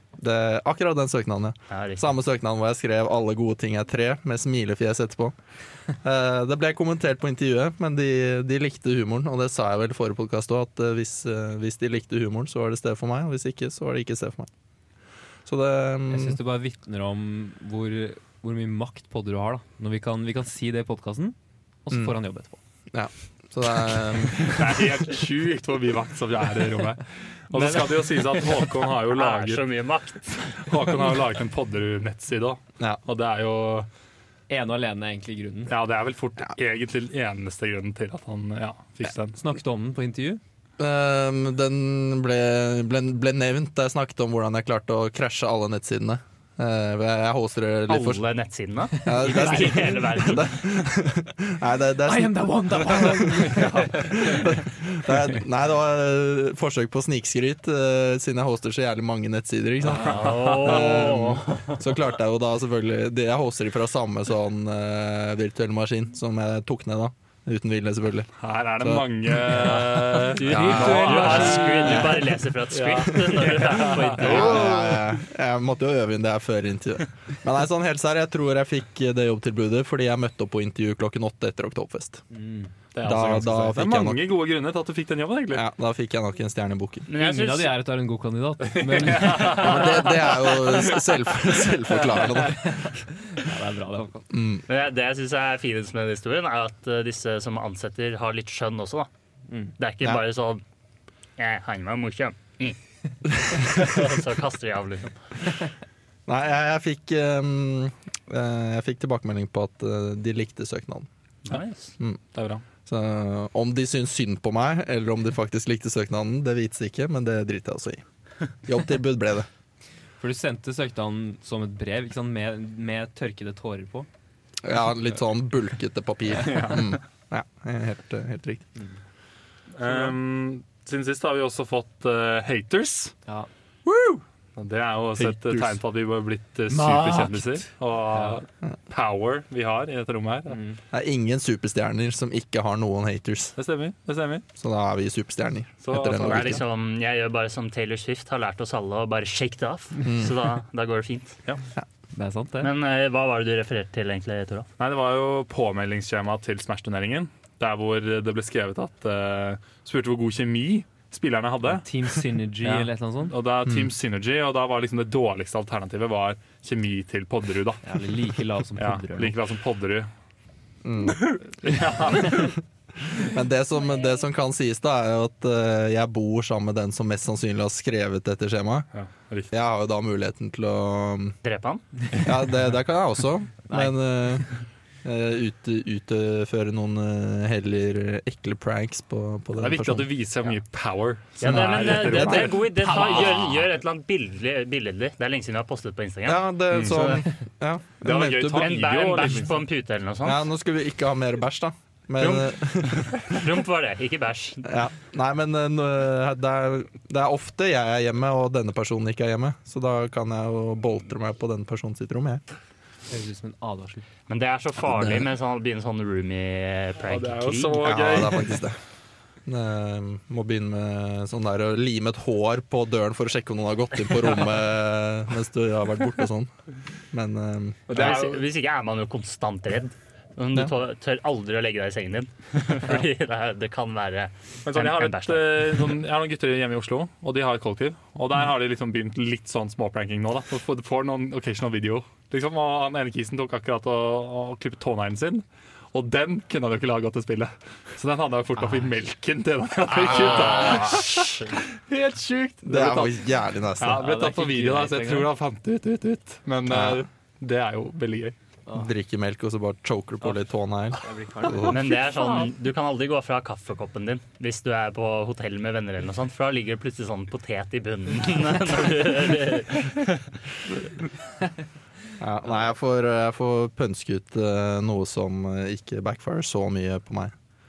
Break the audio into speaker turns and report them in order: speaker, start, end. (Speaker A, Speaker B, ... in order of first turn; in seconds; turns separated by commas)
Speaker A: 0.2-5.3, Speaker B: 1.7-2.1, Speaker A: 6.0-14.5, Speaker A: 15.5-16.4, Speaker C: 16.1-22.6, Speaker A: 22.9-24.8, Speaker D: 24.4-29.6, Speaker B: 27.6-30.8, Speaker D: 30.4-33.9, Speaker C: 34.5-35.7, Speaker D: 35.7-39.4, Speaker C: 39.3-40.4, Speaker A: 40.8-48.2, Speaker B: 47.9-50.8, Speaker A: 49.0-71.3, Speaker C: 52.1-54.4, Speaker D: 53.6-54.0, Speaker D: 59.9-61.4, Speaker B: 59.9-61.9, Speaker D: 68.4-75.1, Speaker B: 69.7-74.9, Speaker C: 70.4-72.2, Speaker A: 71.9-72.2, Speaker A: 74.1-82.2, Speaker C: 82.3-82.7, Speaker D: 82.9-85.7, Speaker A: 83.0-84.2, Speaker A: 85.5-87.1, Speaker B: 87.1-87.7, Speaker C: 87.2-89.8, Speaker D: 88.7-90.8, Speaker B: 89.4-89.9, Speaker A: 89.4-93.0, Speaker D: 92.0-92.5, Speaker C: 92.7-94.3, Speaker A: 94.3-94.6, Speaker B: 94.7-99.1, Speaker B: 99.8-100.6, Speaker B: 101.4-102.8, Speaker B: 103.3-105.2, Speaker A: 106.3-111.1, Speaker B: 111.5-111.9, Speaker D: 112.3-112.6, Speaker A: 112.9-118.0, Speaker A: 118.7-119.5, Speaker C: 120.2-124.1, Speaker A: 124.6-128.7, Speaker D: 126.4-127.0, Speaker D: 129.7-133.1, Speaker A: 133.9-134.2, Speaker D: 134.6-140.6, Speaker A: 135.2-135.8, Speaker C: 136.7-138.4, Speaker C: 140.5-140.8, Speaker A: 140.9-143.6, Speaker D: 143.6-144.4, Speaker A: 144.6-146.6, Speaker D: 145.8-146.6, Speaker B: 146.0-151.4, Speaker A: 150.1-150.3, Speaker C: 152.2-152.7, Speaker B: 152.6-154.7, Speaker D: 154.8-161.8, Speaker C: 161.7-163.3, Speaker D: 162.6-167.8, Speaker A: 163.7-163.9, Speaker C: 167.8-169.4, Speaker D: 168.8-170.1, Speaker A: 170.8-171.3, Speaker D: 171.6-172.6, Speaker A: 173.2-178.9, Speaker D: 178.9-179.5, Speaker A: 179.5-181.4, Speaker B: 181.4-181.8, Speaker A: 182.2-184.5, Speaker C: 183.7-183.9, Speaker A: 185.0-190.1, Speaker D: 189.6-193.4, Speaker B: 191.4-197.2, Speaker A: 191.4-192.6, Speaker C: 192.8-193.7, Speaker A: 196.2-198.8, Speaker D: 196.7-197.3, Speaker D: 198.0-199.6, Speaker B: 198.5-200.4, Speaker A: 200.2-203.5, Speaker B: 202.2-204.7, Speaker A: 204.6-212.4, Speaker C: 213.1-214.1, Speaker B: 214.3-217.9, Speaker A: 214.9-215.2, Speaker D: 217.1-218.6, Speaker A: 217.8-218.8, Speaker A: 219.5-226.5, Speaker A: 227.1-228.2, Speaker D: 227.9-228.4, Speaker B: 227.9-235.9, Speaker D: 234.7-253.2, Speaker C: 248.6-248.9, Speaker B: 250.0-251.5, Speaker A: 252.7-254.0, Speaker D: 253.8-258.4, Speaker C: 253.9-255.3, Speaker A: 256.7-257.0, Speaker A: 258.8-261.9, Speaker C: 261.0-261.8, Speaker B: 261.7-270.4, Speaker D: 261.9-262.5, Speaker A: 272.2-277.3